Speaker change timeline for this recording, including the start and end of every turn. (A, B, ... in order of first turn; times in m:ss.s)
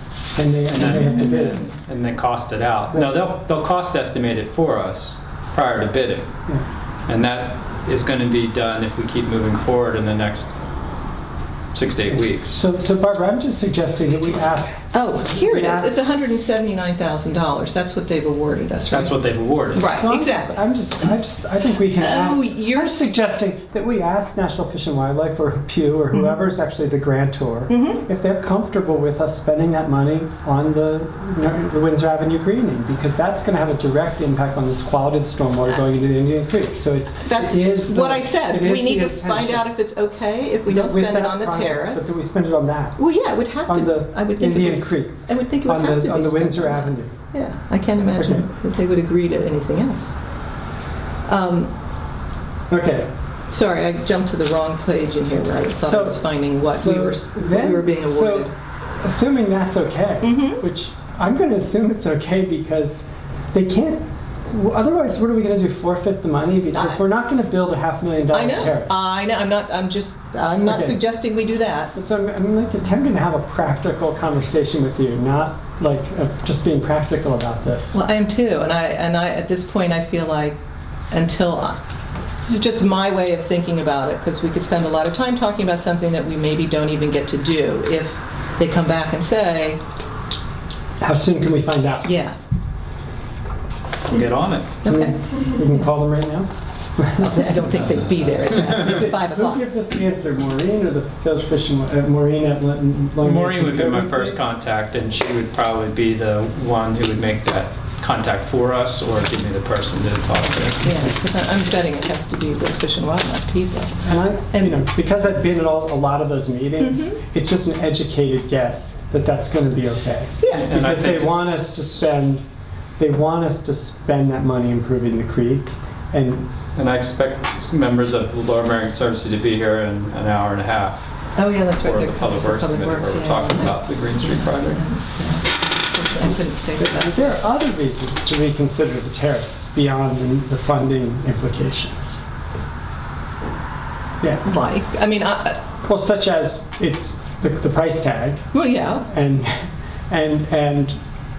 0:00.4-0:01.6 A
0:00.7-0:06.3 B
0:02.9-0:03.2 A
0:07.1-0:10.5 B
0:11.7-0:12.6 B
0:12.1-0:16.0 A
0:14.9-0:19.2 C
0:18.9-0:19.9 B
0:19.7-0:20.6 C
0:19.9-0:39.7 A
0:22.0-0:23.1 C
0:26.1-0:26.4 C
0:27.7-0:28.0 C
0:37.2-0:42.2 C
0:40.7-0:43.0 A
0:43.0-0:50.1 C
0:43.6-0:47.2 A
0:48.2-0:48.5 A
0:51.3-0:51.7 C
0:52.7-0:53.1 A
0:53.5-0:58.5 C
0:55.8-0:58.5 A
0:59.0-1:09.1 A
1:00.2-1:00.6 C
1:06.7-1:07.0 C
1:08.3-1:11.9 C
1:10.6-1:11.0 A
1:12.0-1:18.0 A
1:17.9-1:20.6 C
1:21.1-1:21.8 C
1:22.4-1:29.8 C
1:31.0-1:32.1 A
1:32.0-1:32.4 C
1:34.1-1:34.7 B
1:34.8-1:35.1 C
1:34.9-1:37.7 A
1:37.2-1:39.6 C
1:38.5-1:44.4 A
1:43.2-1:51.0 B
1:50.8-1:54.0 C
1:54.0-2:02.5 A
1:54.5-1:54.8 C
1:56.8-1:57.2 C
2:00.4-2:00.7 C
2:00.5-2:01.8 B
2:03.0-2:06.5 A
2:06.8-2:11.1 B
2:11.4-2:17.4 C
2:11.7-2:14.8 B
2:16.8-2:22.2 A
2:24.2-2:24.5 A
2:24.4-2:25.7 C
2:25.8-2:28.5 A
2:28.5-2:29.0 C
2:29.1-2:31.0 A